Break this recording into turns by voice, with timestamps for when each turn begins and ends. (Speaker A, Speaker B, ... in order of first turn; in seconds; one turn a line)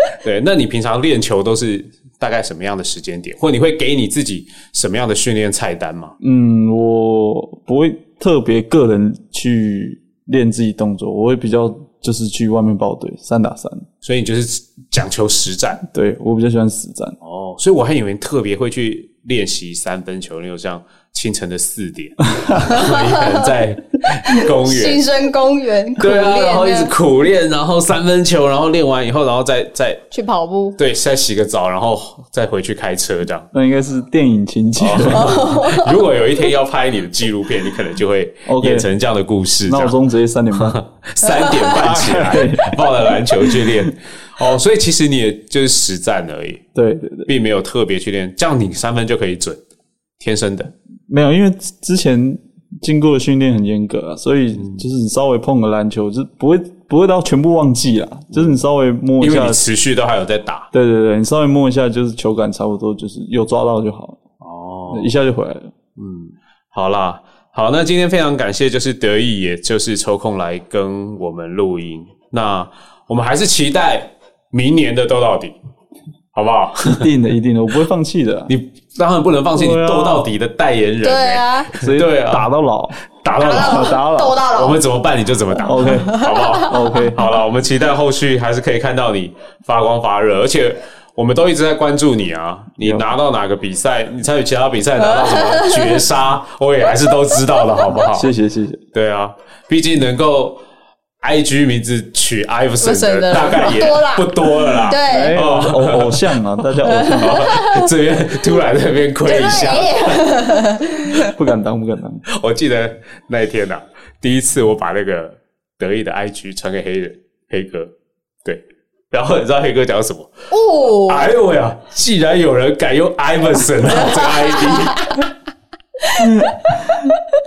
Speaker A: 0.2-6.2
Speaker B: 6.2-13.9
Speaker A: 14.0-15.8
Speaker B: 15.9-17.2
Speaker A: 17.2-25.0
Speaker C: 22.6-23.6
Speaker C: 24.3-26.9
Speaker A: 26.0-30.0
Speaker C: 30.1-30.8
Speaker A: 30.8-33.5
Speaker B: 33.5-35.4
Speaker A: 34.8-40.0
Speaker C: 35.1-36.0
Speaker B: 38.5-38.9
Speaker B: 39.7-40.8
Speaker A: 40.5-46.6
Speaker C: 41.3-41.5
Speaker B: 41.8-43.9
Speaker B: 46.8-47.3
Speaker A: 47.3-49.6
Speaker A: 50.2-50.7
Speaker B: 51.1-59.6
Speaker A: 54.5-54.9
Speaker A: 58.3-58.6
Speaker A: 59.2-60.7
Speaker B: 60.7-64.2
Speaker A: 64.4-65.1
Speaker B: 64.9-65.7
Speaker A: 66.0-75.6
Speaker A: 76.3-77.1
Speaker B: 76.9-78.5
Speaker A: 78.5-82.5
Speaker B: 79.5-80.3
Speaker C: 81.0-81.7
Speaker B: 81.8-84.4
Speaker A: 83.2-84.0
Speaker C: 83.4-84.8
Speaker A: 84.5-98.3
Speaker B: 85.6-87.2
Speaker C: 85.8-86.7
Speaker B: 92.8-93.1
Speaker C: 95.0-96.0
Speaker B: 98.1-98.8
Speaker A: 98.9-100.6
Speaker A: 101.2-106.4
Speaker C: 102.8-105.3
Speaker B: 105.1-107.5
Speaker C: 106.8-107.9
Speaker A: 107.0-110.2
Speaker C: 109.2-111.3
Speaker B: 111.2-112.2
Speaker A: 112.3-117.9
Speaker A: 118.5-120.3
Speaker C: 120.5-121.3
Speaker A: 121.1-125.3
Speaker C: 123.9-125.2
Speaker C: 126.0-127.1